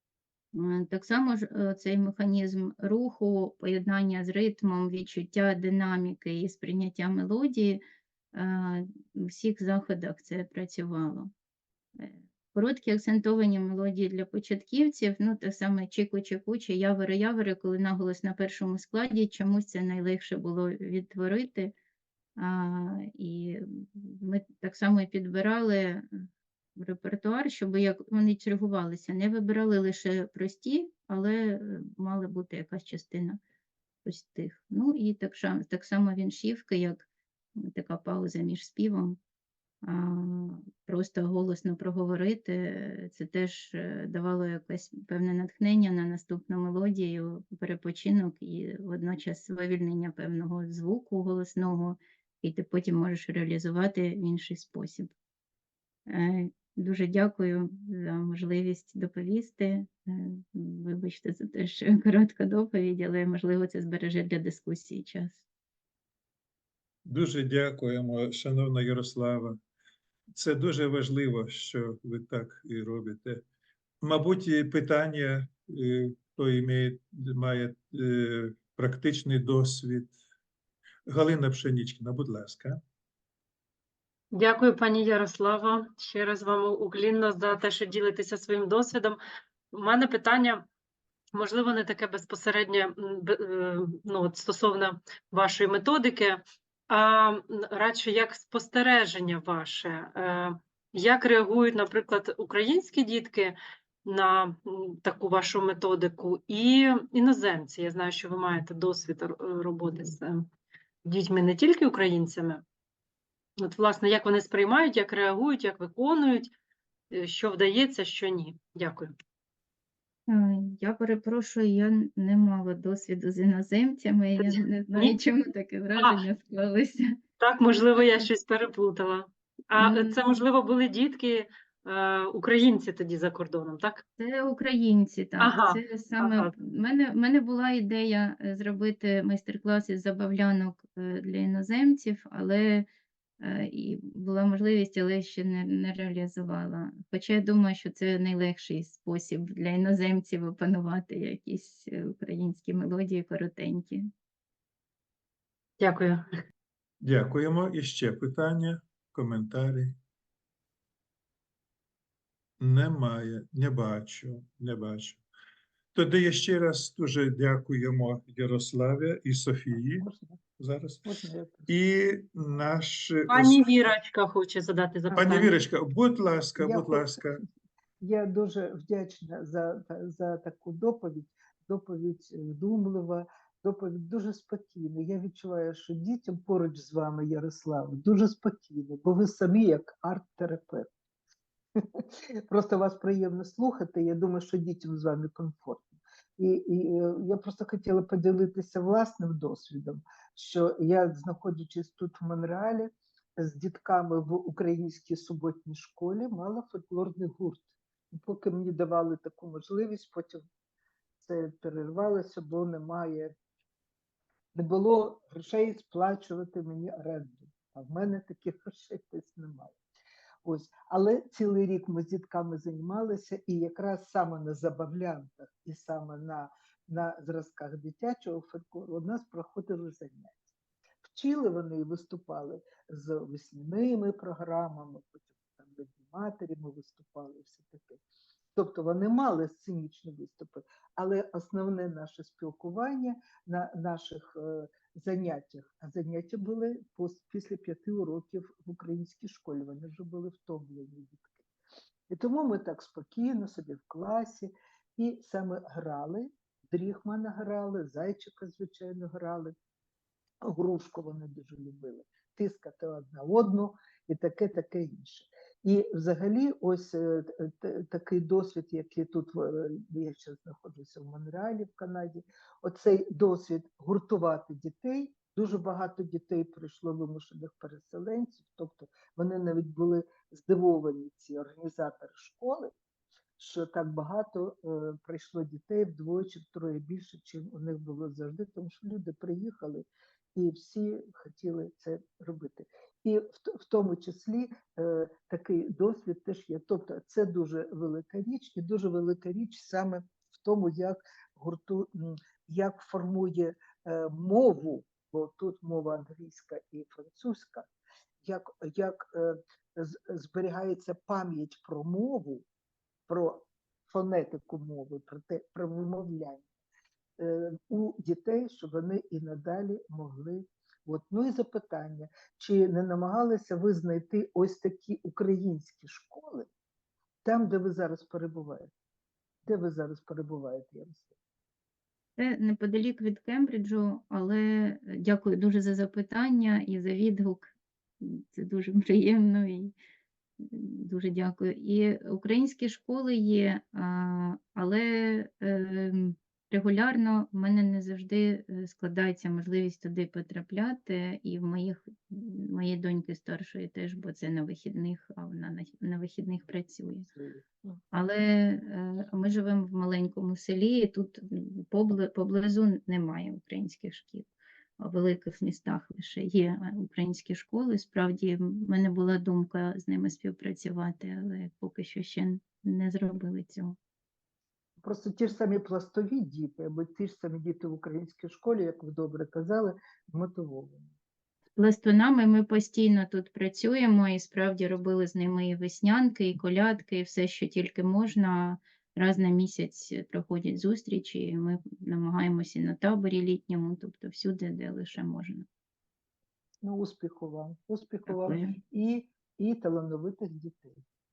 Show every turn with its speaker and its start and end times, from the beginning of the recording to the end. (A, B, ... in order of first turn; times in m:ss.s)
0:00.5-0:07.8 A
0:08.3-0:11.3 A
0:12.0-0:21.7 A
0:22.4-0:26.2 A
0:26.8-0:33.4 A
0:34.0-0:39.2 A
0:39.8-0:55.1 A
0:56.1-1:05.4 A
1:07.0-1:09.6 B
1:10.4-1:13.4 B
1:14.0-1:20.1 B
1:21.1-1:22.8 B
1:24.3-1:29.2 C
1:29.7-1:30.6 C
1:31.3-1:50.5 C
1:51.0-1:52.6 C
1:53.6-1:56.5 C
1:57.1-1:59.1 C
2:00.3-2:07.2 A
2:04.4-2:05.2 C
2:06.0-2:06.2 C
2:07.4-2:14.0 C
2:09.8-2:10.2 A
2:14.2-2:22.9 A
2:15.4-2:16.5 C
2:23.4-2:34.1 A
2:35.8-2:36.2 C
2:37.0-2:40.0 B
2:42.6-2:45.2 B
2:45.9-2:50.1 B
2:49.8-2:50.4 D
2:50.6-2:53.7 B
2:51.0-2:51.7 D
2:53.3-2:55.6 C
2:55.1-2:55.4 D
2:55.1-2:57.4 B
2:56.6-2:57.4 D
2:58.0-3:10.9 D
3:11.8-3:30.4 D
3:31.2-3:33.4 D
3:34.6-3:39.8 D
3:40.4-3:50.4 D
3:51.0-3:58.0 D
3:58.6-4:11.4 D
4:12.1-4:19.6 D
4:20.4-4:42.7 D
4:43.4-5:07.7 D
5:08.2-5:12.5 D
5:13.1-5:16.5 D
5:17.2-5:26.5 D
5:27.2-5:28.7 D
5:29.4-5:31.1 D
5:32.2-5:39.7 A
5:40.4-5:57.1 A
5:57.1-5:57.8 D
5:57.9-6:13.8 A
6:14.8-6:20.9 D
6:21.6-6:35.5 A
6:36.6-6:40.8 D
6:38.1-6:38.6 A